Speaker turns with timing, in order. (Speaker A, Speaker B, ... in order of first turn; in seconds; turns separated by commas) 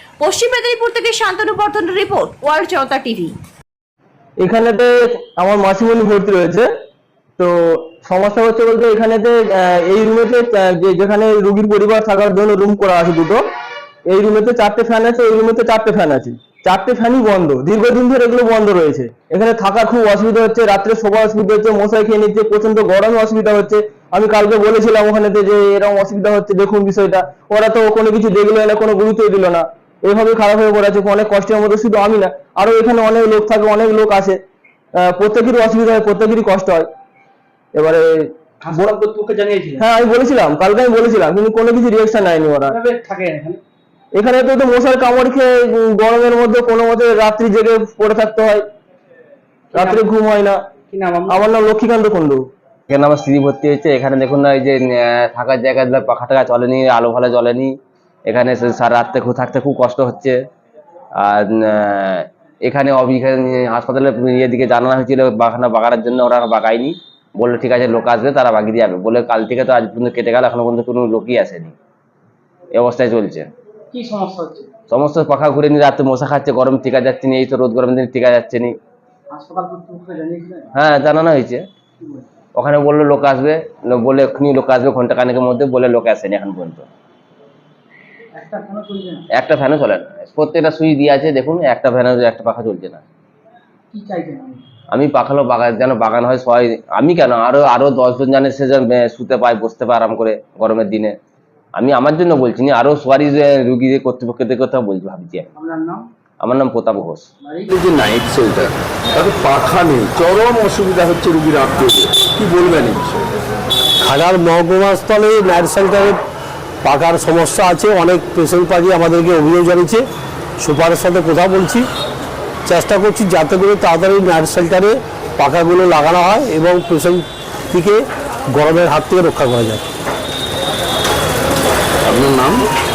Speaker A: 0.2-3.3, Speaker B: 4.4-6.7, Speaker B: 7.4-13.4, Speaker B: 14.1-34.4, Speaker B: 35.0-36.9, Speaker B: 37.7-38.9, Speaker C: 38.6-39.8, Speaker B: 39.8-42.8, Speaker C: 42.7-43.6, Speaker B: 44.1-48.6, Speaker C: 49.7-50.1, Speaker B: 49.7-50.6, Speaker C: 50.9-51.5, Speaker B: 51.3-52.4, Speaker D: 52.9-57.7, Speaker D: 58.3-60.4, Speaker D: 61.2-71.8, Speaker D: 72.7-73.5, Speaker C: 73.9-74.7, Speaker D: 74.9-78.7, Speaker C: 79.3-80.7, Speaker D: 80.8-81.7, Speaker C: 82.0-82.3, Speaker D: 82.5-86.9, Speaker C: 88.3-89.2, Speaker D: 89.3-93.0, Speaker C: 93.9-94.7, Speaker D: 94.9-101.2, Speaker D: 101.8-105.5, Speaker C: 105.5-106.1, Speaker D: 106.4-107.3, Speaker C: 107.4-107.7, Speaker E: 107.7-113.3, Speaker F: 114.0-116.2, Speaker F: 116.8-120.0, Speaker F: 120.6-121.8, Speaker F: 122.7-128.0, Speaker F: 128.6-129.8, Speaker E: 132.1-132.6